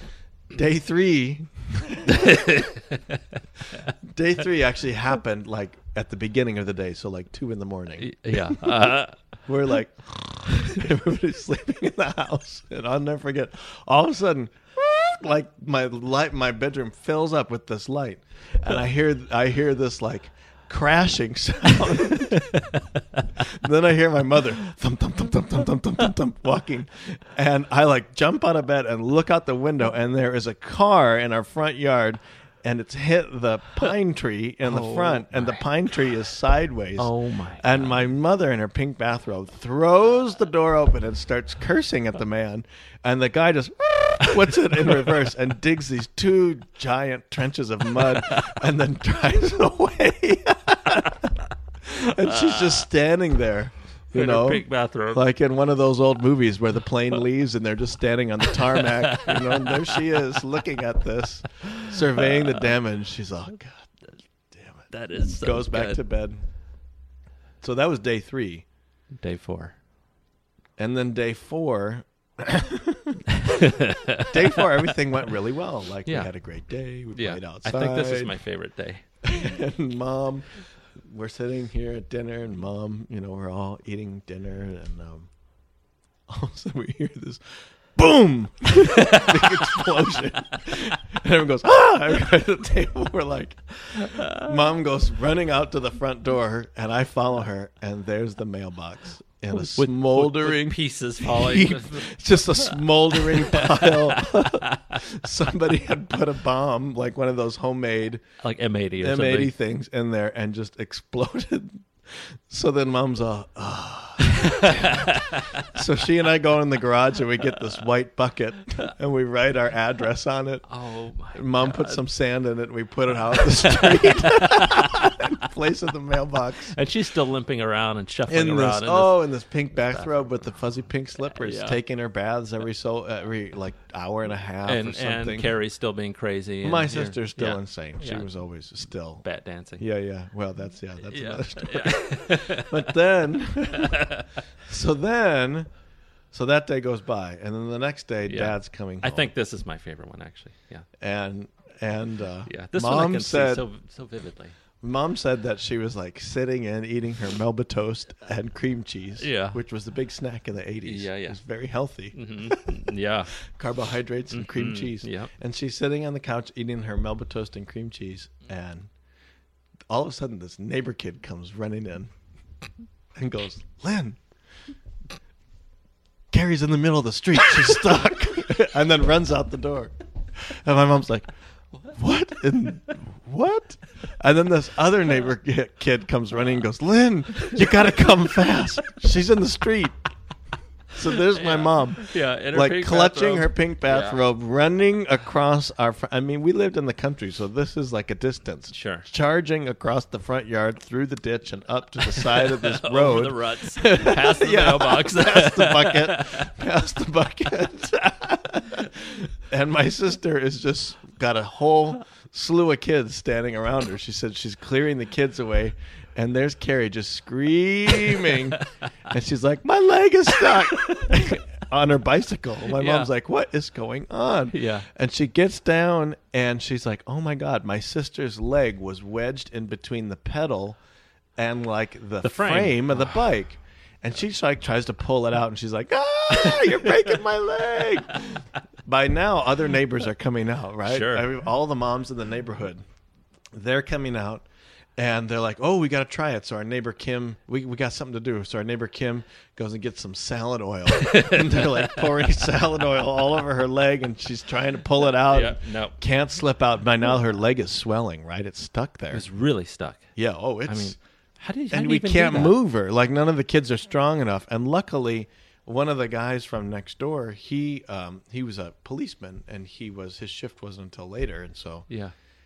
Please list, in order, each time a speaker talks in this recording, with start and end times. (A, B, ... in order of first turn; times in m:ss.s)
0:00.5-0:02.7 A
0:02.0-0:03.9 B
0:04.0-1:03.9 A
0:08.0-0:09.2 B
0:22.6-0:23.2 B
0:34.6-0:35.6 B
0:37.0-0:38.0 B
0:52.0-0:52.8 B
0:54.1-0:55.2 B
0:58.8-0:59.9 B
1:04.5-1:06.4 A
1:04.9-1:06.0 B
1:07.6-1:08.6 A
1:09.2-1:09.8 B
1:10.8-1:18.4 A
1:13.3-1:14.9 B
1:16.0-1:16.3 B
1:17.1-1:19.0 B
1:19.2-1:25.3 A
1:26.3-1:48.2 A
1:29.0-1:29.9 B
1:34.0-1:34.5 B
1:39.5-1:45.0 B
1:48.4-1:49.5 B
1:49.0-2:00.6 A
1:54.2-1:55.8 B
2:00.7-2:02.0 B
2:01.3-2:06.7 A
2:03.3-2:05.4 B
2:06.7-2:09.2 B
2:08.3-2:15.6 A
2:11.2-2:11.8 B
2:14.6-2:18.3 B
2:16.6-2:19.2 A
2:19.2-2:19.8 B
2:19.8-2:25.7 A
2:21.0-2:22.9 B
2:23.7-2:24.4 B
2:26.3-2:29.3 A
2:28.2-2:30.8 B
2:31.0-2:33.6 A
2:32.5-2:34.6 B
2:34.8-2:48.9 A
2:39.2-2:39.6 B
2:40.8-2:41.4 B
2:42.1-2:43.3 B
2:44.3-2:45.3 B
2:49.9-2:52.1 A
2:53.1-2:54.2 A
2:56.3-3:10.0 A
3:10.9-3:50.8 A
3:11.3-3:14.2 B
3:18.7-3:19.1 B
3:22.0-3:26.5 B
3:38.2-3:38.6 B
3:40.8-3:41.1 B
3:42.7-3:43.1 B
3:44.5-3:44.8 B
3:51.4-4:02.8 A
3:52.2-3:53.3 B
4:00.8-4:01.3 B
4:03.5-4:04.4 A
4:05.0-4:19.2 A
4:10.9-4:12.1 B
4:15.3-4:16.0 B
4:19.1-4:20.1 B
4:20.2-4:21.0 A
4:20.7-4:22.6 B
4:21.7-4:31.8 A
4:31.9-4:32.1 B